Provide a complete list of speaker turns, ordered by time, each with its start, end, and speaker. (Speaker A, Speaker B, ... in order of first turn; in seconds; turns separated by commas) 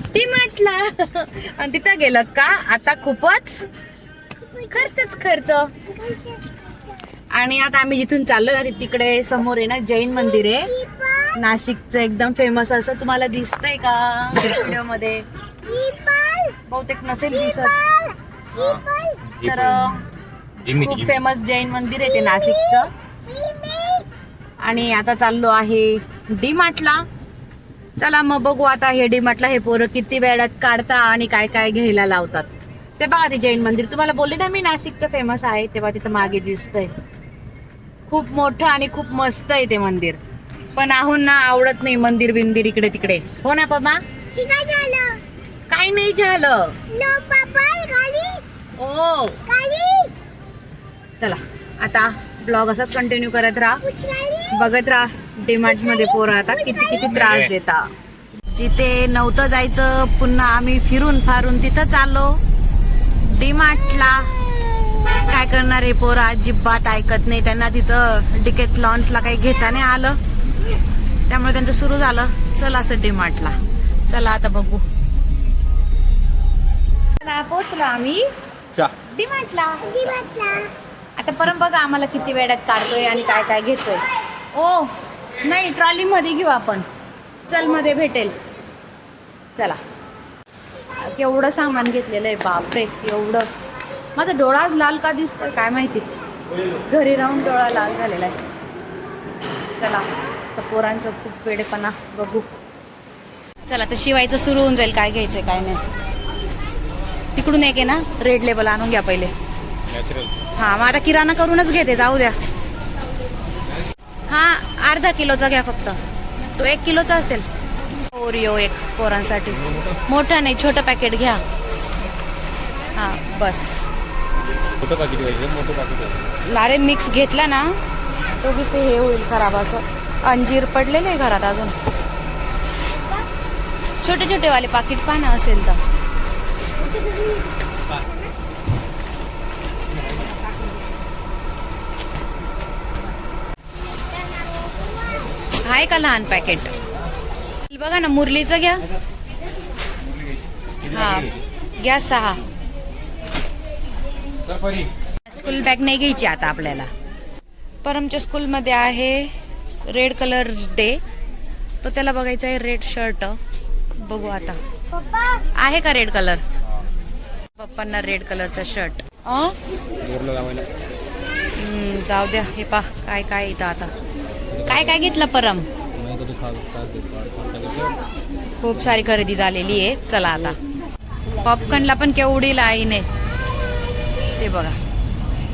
Speaker A: 0.1-3.6, Speaker B: 4.4-5.2, Speaker A: 4.7-5.7, Speaker B: 5.8-6.6, Speaker A: 7.3-10.7, Speaker B: 10.2-11.4, Speaker A: 11.4-15.2, Speaker B: 15.6-16.6, Speaker A: 16.7-17.8, Speaker B: 17.3-19.2, Speaker C: 18.5-20.1, Speaker A: 19.4-20.0, Speaker C: 20.6-21.2, Speaker A: 20.8-22.9, Speaker B: 22.0-24.1, Speaker A: 24.6-27.0, Speaker A: 28.0-36.9, Speaker A: 38.1-40.2, Speaker A: 40.8-44.0, Speaker B: 44.3-45.2, Speaker A: 45.7-46.7, Speaker B: 46.9-48.4, Speaker A: 48.8-49.4, Speaker B: 49.5-50.1, Speaker A: 51.2-53.8, Speaker B: 53.8-54.7, Speaker A: 54.5-57.9, Speaker B: 55.6-57.1, Speaker C: 57.1-57.5, Speaker A: 58.5-62.4, Speaker A: 63.2-64.3, Speaker A: 65.3-70.2, Speaker A: 71.3-73.6, Speaker A: 74.1-74.8, Speaker A: 77.2-78.2, Speaker A: 79.1-80.1, Speaker B: 79.8-80.7, Speaker A: 81.2-84.0, Speaker A: 84.5-84.9, Speaker A: 85.4-86.8, Speaker A: 87.5-88.3, Speaker A: 91.0-93.5, Speaker A: 94.2-96.1, Speaker A: 96.9-98.3, Speaker A: 99.8-102.5, Speaker A: 103.7-105.8, Speaker A: 107.3-109.3, Speaker C: 109.9-110.3, Speaker A: 110.5-112.3, Speaker A: 114.3-116.0, Speaker A: 116.6-117.5, Speaker A: 118.1-121.4, Speaker C: 119.6-120.0, Speaker A: 123.0-123.9, Speaker C: 124.8-126.2, Speaker A: 126.5-127.7, Speaker A: 128.3-131.8, Speaker B: 133.0-133.3, Speaker A: 134.0-135.8, Speaker B: 136.8-138.0, Speaker B: 144.4-145.3, Speaker A: 145.6-146.7, Speaker A: 147.7-148.9, Speaker C: 150.8-151.3, Speaker A: 150.8-152.4, Speaker C: 154.5-154.9, Speaker A: 155.3-156.9, Speaker A: 157.8-159.3, Speaker A: 159.9-161.0, Speaker A: 161.8-163.4, Speaker A: 164.0-164.6, Speaker B: 164.9-165.4, Speaker A: 165.6-166.4, Speaker A: 167.6-169.6, Speaker C: 170.0-170.7, Speaker A: 171.6-173.9, Speaker C: 174.5-175.0, Speaker A: 174.7-175.7, Speaker C: 176.0-178.0, Speaker A: 178.6-180.6, Speaker A: 181.4-183.1, Speaker A: 184.4-184.8